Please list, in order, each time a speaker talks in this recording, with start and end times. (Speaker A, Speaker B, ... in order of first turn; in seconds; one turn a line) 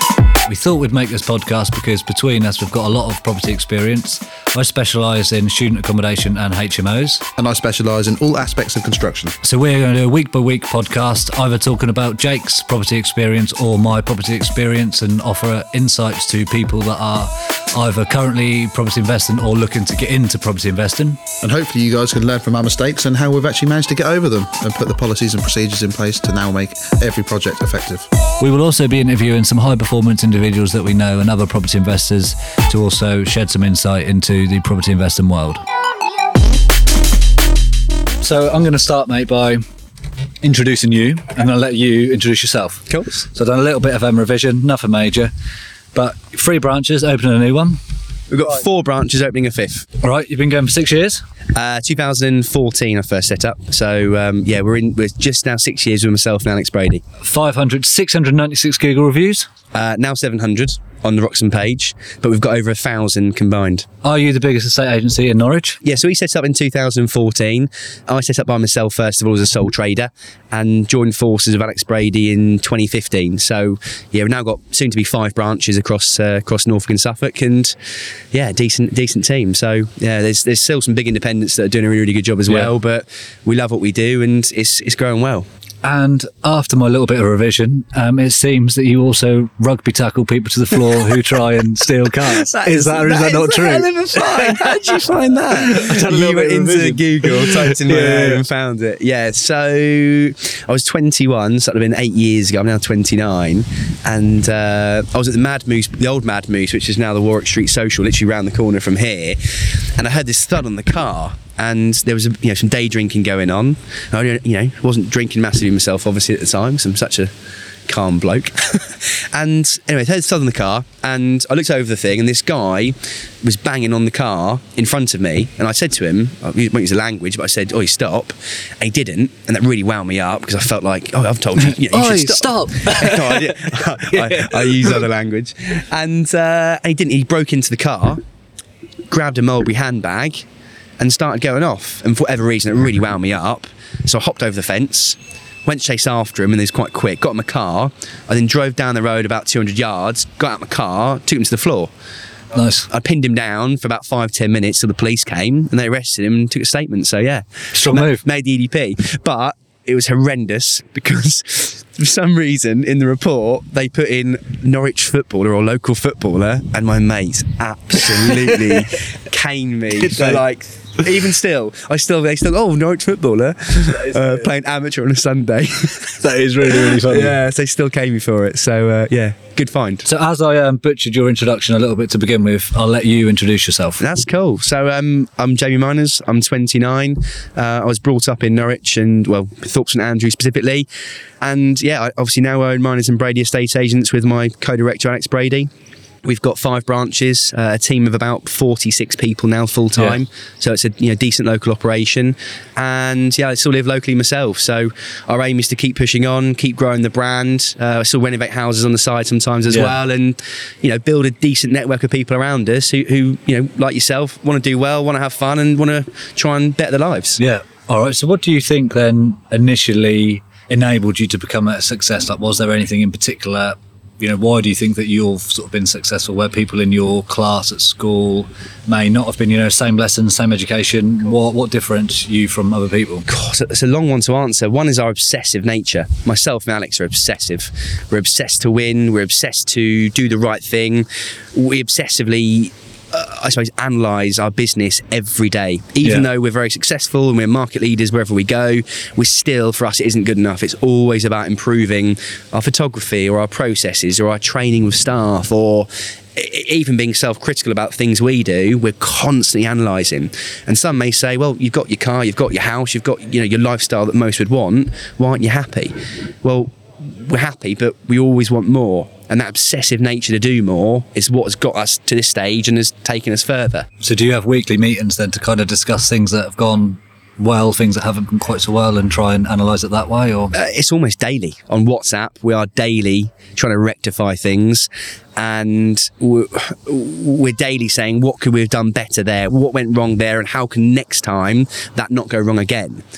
Speaker A: 0.5-7.2
Speaker B: 7.4-9.4
Speaker A: 9.4-21.2
Speaker B: 21.4-28.1
Speaker A: 28.4-35.6
Speaker A: 38.2-39.6
Speaker A: 40.4-45.3
Speaker C: 42.9-43.2
Speaker A: 45.9-47.8
Speaker C: 48.3-49.9
Speaker A: 50.0-51.2
Speaker C: 51.5-57.0
Speaker A: 57.2-59.5
Speaker C: 59.7-63.9
Speaker A: 64.0-65.8
Speaker C: 65.8-77.8
Speaker C: 78.3-85.5
Speaker A: 85.8-95.0
Speaker C: 92.2-117.3
Speaker A: 95.5-98.4
Speaker C: 117.9-138.2
Speaker A: 131.6-135.0
Speaker C: 139.1-140.5
Speaker C: 141.0-151.9
Speaker A: 152.5-152.9
Speaker C: 152.9-180.1
Speaker A: 157.7-158.2
Speaker A: 169.9-170.4
Speaker A: 173.9-174.5
Speaker A: 176.2-177.4
Speaker A: 180.1-184.0
Speaker C: 184.0-190.9
Speaker C: 191.4-195.7
Speaker C: 196.2-217.4
Speaker A: 209.7-209.9
Speaker A: 217.4-233.3
Speaker C: 233.3-273.9
Speaker A: 246.0-246.3
Speaker A: 274.0-280.5
Speaker C: 280.5-293.0